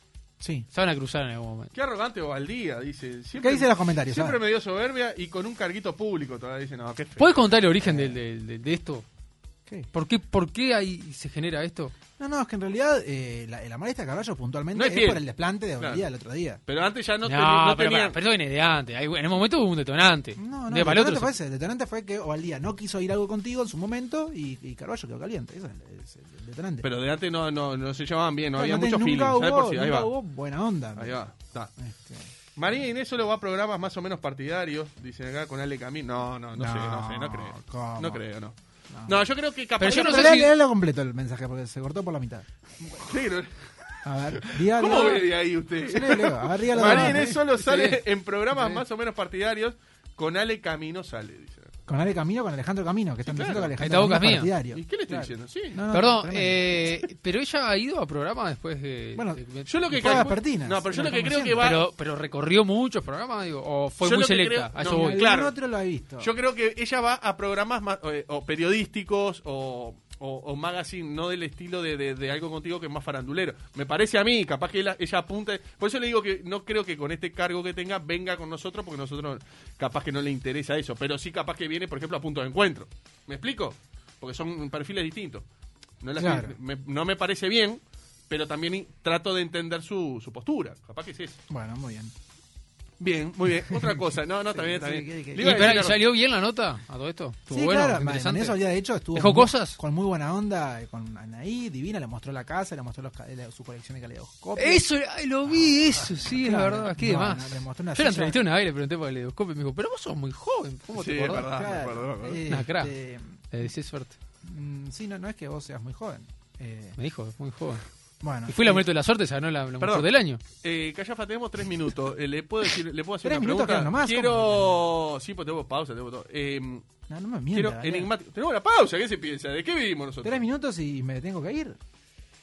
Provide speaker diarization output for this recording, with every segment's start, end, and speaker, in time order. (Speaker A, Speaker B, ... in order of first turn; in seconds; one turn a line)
Speaker A: 0.4-0.7
Speaker B: 0.7-1.7
Speaker C: 1.7-7.5
Speaker A: 3.4-4.4
Speaker B: 7.2-9.0
Speaker A: 7.8-8.2
Speaker B: 9.9-11.9
Speaker A: 12.2-16.6
Speaker C: 14.7-15.2
Speaker C: 15.8-16.1
Speaker C: 16.7-18.2
Speaker B: 17.2-21.3
Speaker A: 20.4-26.9
Speaker C: 26.8-30.1
Speaker A: 28.6-31.2
Speaker C: 31.0-31.7
Speaker A: 31.8-32.3
Speaker C: 32.6-40.4
Speaker A: 36.5-38.2
Speaker A: 38.9-39.2
Speaker B: 39.8-40.5
Speaker A: 39.8-43.1
Speaker C: 43.0-43.5
Speaker A: 44.0-47.4
Speaker C: 44.3-51.7
Speaker B: 46.8-48.0
Speaker A: 51.9-56.9
Speaker C: 53.2-53.8
Speaker B: 53.8-54.5
Speaker C: 54.7-55.8
Speaker B: 55.9-60.2
Speaker A: 59.1-61.7
Speaker C: 59.7-61.8
Speaker B: 61.6-65.2
Speaker C: 64.0-65.5
Speaker A: 64.8-66.3
Speaker C: 66.2-85.4
Speaker C: 86.0-91.4
Speaker A: 86.2-86.5
Speaker A: 91.5-92.1
Speaker C: 93.0-96.0
Speaker A: 93.7-94.0
Speaker A: 94.5-95.7
Speaker B: 95.4-98.6
Speaker A: 97.5-104.8
Speaker B: 99.1-99.8
Speaker B: 104.6-111.5
Speaker A: 105.5-108.4
Speaker C: 110.9-112.5
Speaker A: 111.4-113.4
Speaker B: 112.5-112.9
Speaker B: 113.5-114.1
Speaker A: 114.4-117.0
Speaker B: 117.0-117.8
Speaker A: 118.2-118.8
Speaker B: 118.5-120.4
Speaker C: 119.8-126.8
Speaker A: 123.2-124.8
Speaker A: 127.1-128.1
Speaker C: 127.5-130.4
Speaker A: 130.2-131.8